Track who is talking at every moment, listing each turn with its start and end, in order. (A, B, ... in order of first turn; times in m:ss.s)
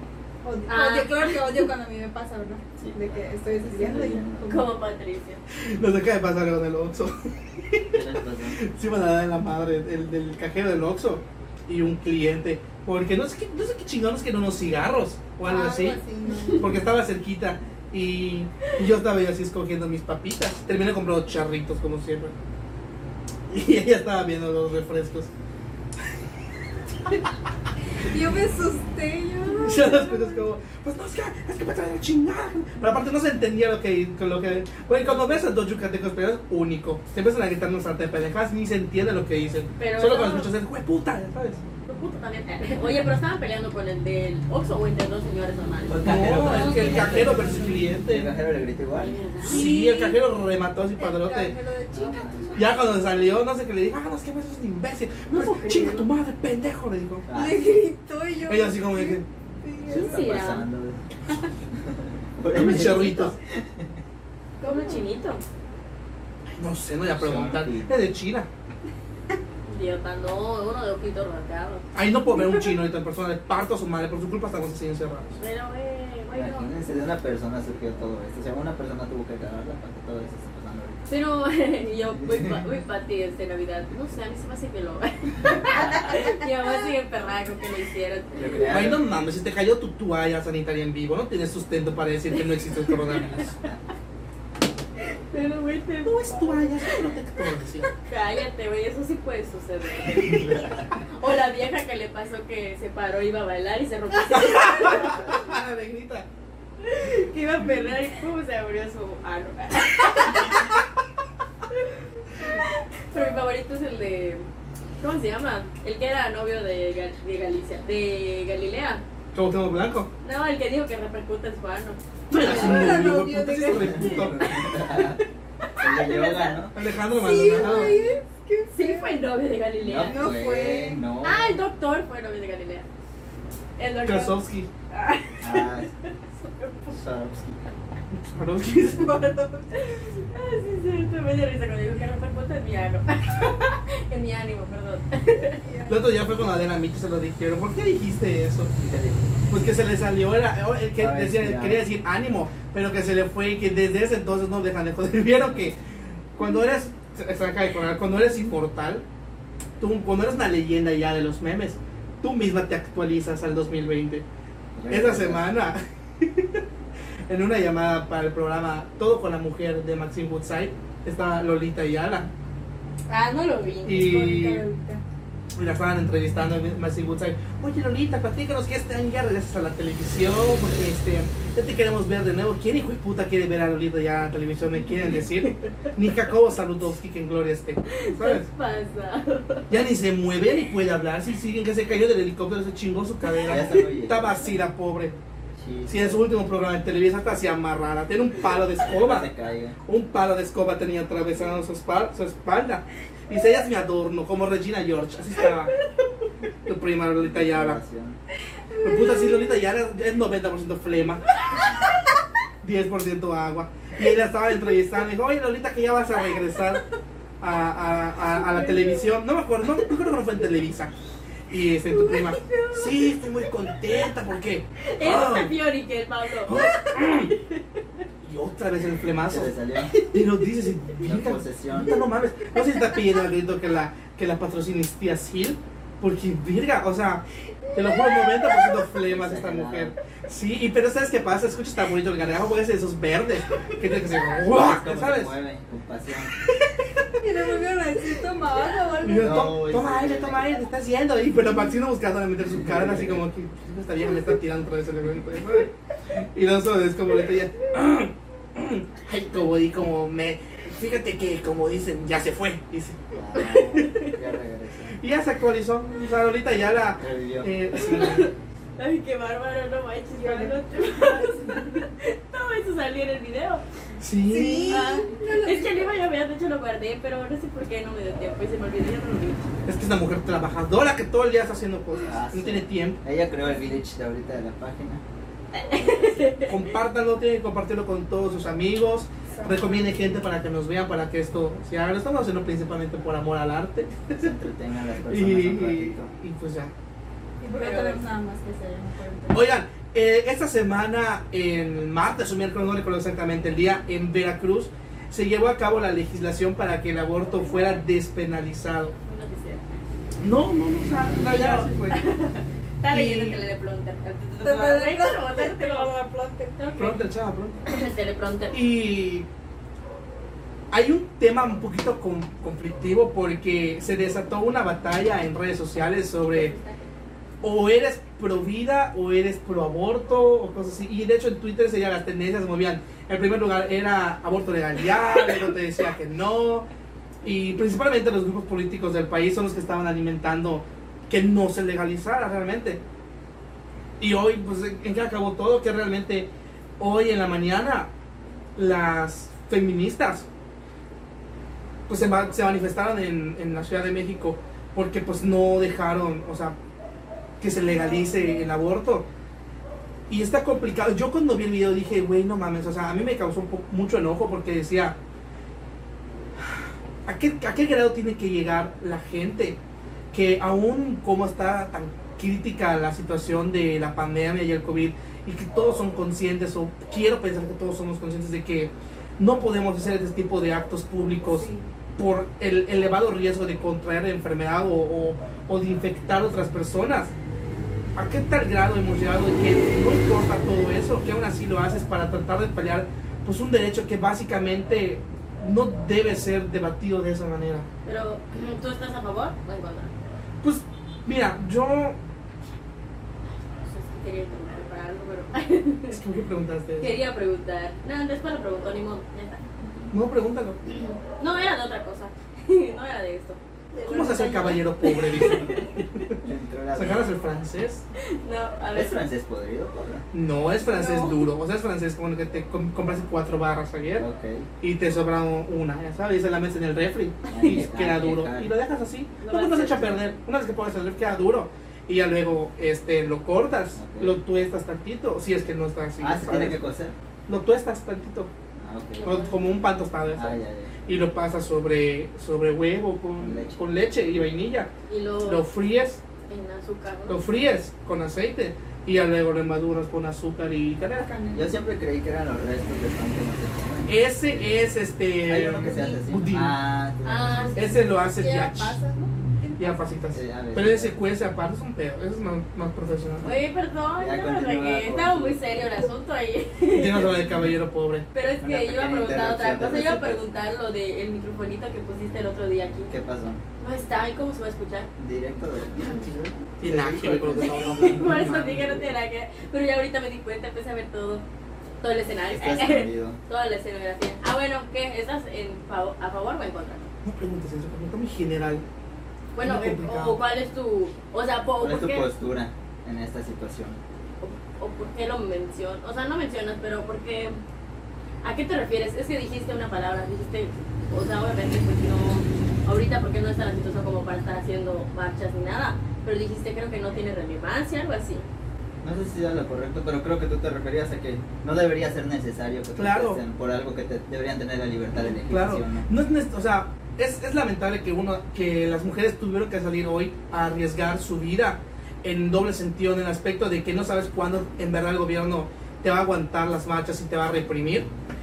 0:00.4-0:04.7 A
0:00.7-0:01.6 B
0:02.8-0:04.6 C
0:04.5-0:05.4 B
0:05.6-0:08.0 D
0:07.9-0:08.6 C
0:08.5-0:16.0 D
0:15.4-0:16.8 A
0:16.6-0:22.3 D
0:23.5-0:25.3 D
0:28.0-0:30.4 A
0:29.6-0:41.6 D
0:35.0-0:35.4 B
0:39.8-0:40.5 B
0:41.9-0:46.0 B
0:45.9-0:49.2 C
0:46.0-0:48.3 D
0:46.4-0:47.8 A
0:48.9-0:49.7 B
0:49.4-0:50.2 A
0:49.4-0:51.5 D
0:51.0-0:53.0 A
0:51.9-0:52.6 C
0:52.5-0:57.2 D
0:55.3-0:56.1 B
0:57.3-0:57.7 C
0:57.3-1:00.2 A
0:58.4-0:59.2 D
0:59.8-1:01.0 C
0:59.9-1:00.6 B
1:01.8-1:04.0 C
1:02.5-1:03.3 D
1:04.6-1:05.0 A
1:04.6-1:05.4 B
1:06.6-1:08.5 D
1:07.1-1:07.9 C
1:09.7-1:11.8 B
1:11.9-1:15.4 D
1:15.4-1:16.7 B
1:16.3-1:21.0 C
1:21.1-1:28.9 B
1:22.1-1:22.6 C
1:28.3-1:29.2 C
1:28.7-1:33.6 D
1:32.9-1:33.7 B
1:35.0-1:37.1 B
1:36.0-1:37.9 D
1:38.0-1:45.3 B
1:40.3-1:40.8 C
1:44.2-1:46.2 D
1:46.8-1:50.6 B
1:53.1-1:54.4 B
1:55.0-1:59.0 B
1:59.3-2:00.1 D
2:00.2-2:02.0 B
2:02.3-2:04.4 D
2:02.3-2:04.2 A
2:02.5-2:03.0 C
2:03.8-2:05.2 C
2:04.4-2:06.6 B
2:05.8-2:06.7 C
2:06.7-2:08.0 D
2:07.1-2:09.2 A
2:07.6-2:08.1 B
2:08.7-2:10.3 B
2:09.8-2:11.6 C
2:10.0-2:11.0 A
2:11.2-2:12.8 B
2:13.8-2:14.4 B
2:14.0-2:14.7 D
2:14.9-2:17.0 B
2:15.4-2:15.9 C
2:16.9-2:17.6 C
2:18.2-2:19.2 D
2:19.2-2:19.7 A
2:19.7-2:25.6 B
2:25.6-2:26.2 A
2:25.9-2:28.7 D
2:28.8-2:29.3 C
2:29.5-2:35.8 D
2:31.0-2:31.8 C
2:35.5-2:35.7 C
2:36.3-2:39.0 D
2:39.8-2:44.2 D
2:44.7-2:45.5 C
2:44.9-2:46.6 D
2:47.3-2:52.3 D
2:53.1-2:54.0 B
2:53.8-2:54.6 D
2:53.9-2:55.0 A
2:55.5-3:08.4 D
3:05.1-3:05.7 B
3:07.9-3:09.7 B
3:09.7-3:15.2 D
3:13.4-3:14.4 C
3:15.6-3:16.2 C
3:15.9-3:19.3 D
3:18.8-3:19.8 C
3:19.8-3:25.8 D
3:26.6-3:27.8 D
3:27.2-3:28.2 C
3:28.8-3:31.4 D
3:32.6-3:36.8 D
3:37.4-3:40.9 D
3:38.3-3:39.1 B
3:41.5-3:45.5 D
3:41.9-3:43.0 B
3:44.8-3:47.8 B
3:46.5-3:47.3 D
3:48.2-4:05.3 D
3:49.2-3:49.9 C
3:51.0-3:52.0 C
3:59.0-3:59.9 C
4:04.5-4:06.3 C
4:06.5-4:07.5 D
4:07.2-4:09.5 A
4:09.0-4:15.7 D
4:09.2-4:10.5 C
4:12.5-4:13.2 C
4:16.3-4:24.1 D
4:23.1-4:25.0 C
4:24.9-4:28.3 D
4:27.0-4:28.2 C
4:27.8-4:33.6 B
4:30.1-4:31.7 A
4:34.0-4:34.9 D
4:34.3-4:35.9 A
4:34.7-4:39.5 B
4:39.6-4:43.0 D
4:42.0-4:45.0 C
4:45.5-4:46.7 B
4:46.4-4:54.3 D
4:49.3-4:50.1 A
4:54.1-4:56.1 C
4:55.1-4:56.7 D
4:57.4-4:59.4 A
4:57.6-4:58.0 B
4:59.3-5:08.9 D
5:09.0-5:09.7 B
5:10.2-5:12.0 D
5:11.1-5:15.9 B
5:12.9-5:13.4 D
5:14.4-5:16.8 A
5:16.6-5:17.0 B
5:16.7-5:17.6 D
5:17.6-5:18.6 B
5:18.5-5:19.2 D
5:20.7-5:26.5 D
5:26.3-5:26.9 B
5:27.4-5:36.6 D
5:37.2-5:42.8 D
5:44.0-5:46.3 D
5:46.8-5:47.9 D
5:48.6-5:50.3 D
5:51.9-5:56.5 D
5:57.4-5:59.0 D
6:00.1-6:05.0 D
6:06.4-6:09.6 D
6:10.1-6:27.1 D
6:21.2-6:21.7 A
6:28.0-6:37.7 D
6:37.8-6:39.9 B
6:40.4-6:42.0 D
6:43.5-6:46.0 B
6:45.9-6:46.9 D
6:46.8-6:49.4 B
6:49.6-6:49.9 C
6:49.9-6:50.6 D
6:50.6-6:53.4 B
6:53.7-6:54.6 A
6:53.9-6:56.2 D
6:54.8-6:55.8 B
6:56.2-6:57.1 C
6:56.7-6:57.8 D
6:58.0-6:59.0 B
6:58.7-7:00.0 C
7:00.1-7:04.0 D
7:00.8-7:01.2 A
7:04.0-7:04.5 C
7:04.6-7:16.6 D
7:07.3-7:08.5 C
7:09.2-7:10.1 B
7:13.8-7:14.2 C
7:16.0-7:17.0 C
7:17.3-7:18.3 D
7:18.6-7:19.2 C
7:19.0-7:19.4 B
7:19.0-7:24.7 D
7:20.1-7:20.7 C
7:23.2-7:23.6 C
7:24.9-7:25.4 B
7:25.2-7:26.0 D
7:26.3-7:27.2 B
7:27.1-7:31.1 D
7:30.9-7:31.5 A
7:31.3-7:34.6 C
7:33.9-7:36.6 D
7:35.2-7:37.5 C
7:35.4-7:36.0 A
7:37.0-7:37.7 B
7:37.4-7:40.0 A
7:37.6-7:38.8 D
7:39.6-7:43.3 D
7:40.1-7:40.9 C
7:43.2-7:47.1 B
7:44.0-7:45.4 C
7:46.7-7:48.0 D
7:47.2-7:47.5 C
7:48.1-7:52.9 B
7:48.4-7:50.2 C
7:52.9-7:53.4 C
7:53.6-7:54.9 B
7:55.0-7:58.9 C
7:56.6-7:58.6 D
7:57.4-8:01.2 B
8:01.8-8:06.8 B
8:02.3-8:03.2 C
8:07.0-8:08.6 D
8:09.3-8:12.1 B
8:09.4-8:10.2 D
8:11.6-8:13.8 C
8:14.2-8:17.4 B
8:18.2-8:28.2 B
8:28.8-8:35.9 C
8:32.8-8:33.2 D
8:35.3-8:47.9 D